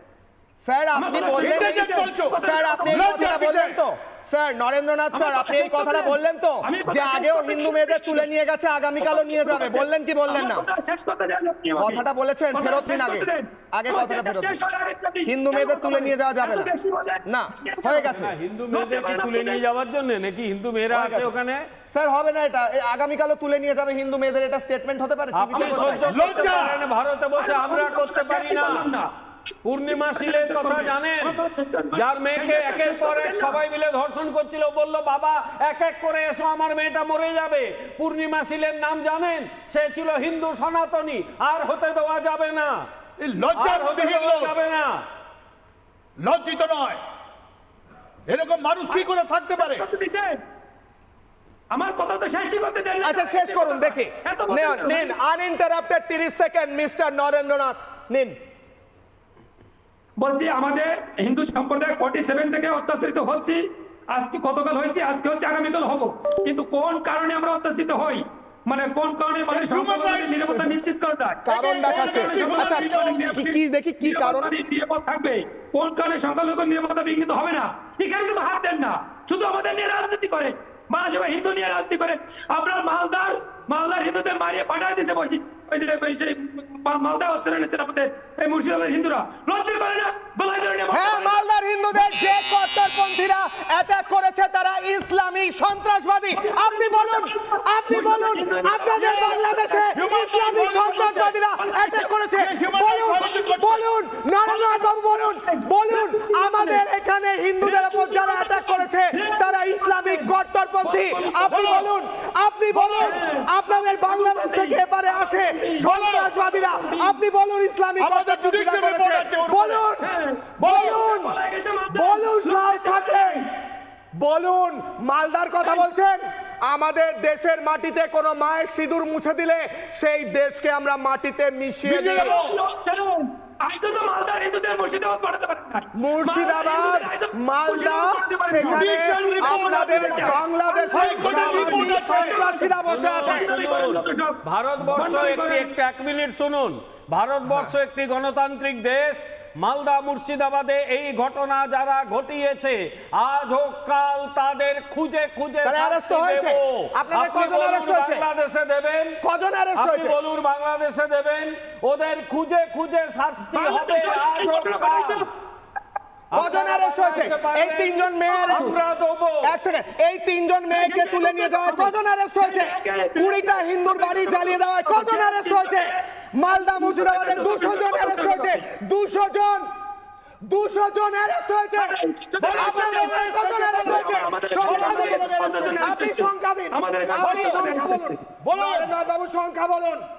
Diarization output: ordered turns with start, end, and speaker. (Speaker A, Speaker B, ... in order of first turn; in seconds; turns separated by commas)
Speaker A: 0.6-10.6, Speaker B: 0.9-3.1, Speaker C: 1.3-3.8, Speaker B: 5.1-8.3, Speaker B: 9.0-12.0, Speaker A: 11.8-14.6, Speaker B: 12.5-18.1, Speaker A: 15.2-16.7, Speaker A: 17.3-18.3, Speaker D: 18.1-21.6, Speaker B: 18.7-19.6, Speaker A: 20.9-21.3, Speaker A: 21.9-26.0, Speaker D: 25.3-28.9, Speaker B: 25.5-26.7, Speaker C: 26.1-26.8, Speaker B: 27.4-29.1, Speaker D: 29.6-31.4, Speaker B: 29.9-33.6, Speaker D: 31.9-42.9, Speaker C: 43.2-44.5, Speaker D: 43.5-45.0, Speaker C: 46.2-47.0, Speaker C: 48.3-49.8, Speaker B: 48.9-50.4, Speaker B: 51.7-55.1, Speaker A: 53.0-58.3, Speaker B: 60.2-63.6, Speaker B: 64.1-92.3, Speaker C: 69.5-70.5, Speaker A: 71.5-74.5, Speaker C: 71.8-73.4, Speaker A: 90.9-120.0, Speaker B: 96.3-102.3, Speaker C: 99.0-101.3, Speaker C: 102.4-103.8, Speaker B: 103.2-103.5, Speaker B: 104.4-104.9, Speaker B: 105.5-106.8, Speaker B: 107.6-110.3, Speaker B: 110.8-111.9, Speaker C: 111.5-111.9, Speaker C: 112.7-113.2, Speaker B: 113.0-117.2, Speaker C: 115.8-116.3, Speaker C: 118.0-119.8, Speaker B: 120.0-123.5, Speaker C: 120.6-121.0, Speaker A: 120.7-121.3, Speaker A: 121.9-123.4, Speaker A: 124.2-132.4, Speaker C: 131.8-132.6, Speaker B: 132.1-145.7, Speaker A: 136.0-143.5, Speaker C: 138.6-142.5, Speaker D: 142.9-159.2, Speaker A: 147.4-147.7, Speaker A: 155.6-158.2, Speaker A: 159.2-160.2, Speaker D: 159.8-165.2, Speaker B: 163.4-165.3, Speaker D: 166.3-169.5, Speaker A: 166.3-168.7, Speaker B: 168.2-168.8, Speaker A: 169.4-179.7, Speaker B: 170.7-176.0, Speaker B: 176.7-178.6, Speaker A: 180.4-181.9, Speaker B: 181.8-188.2, Speaker C: 182.4-186.1, Speaker A: 182.5-190.0, Speaker C: 187.2-188.9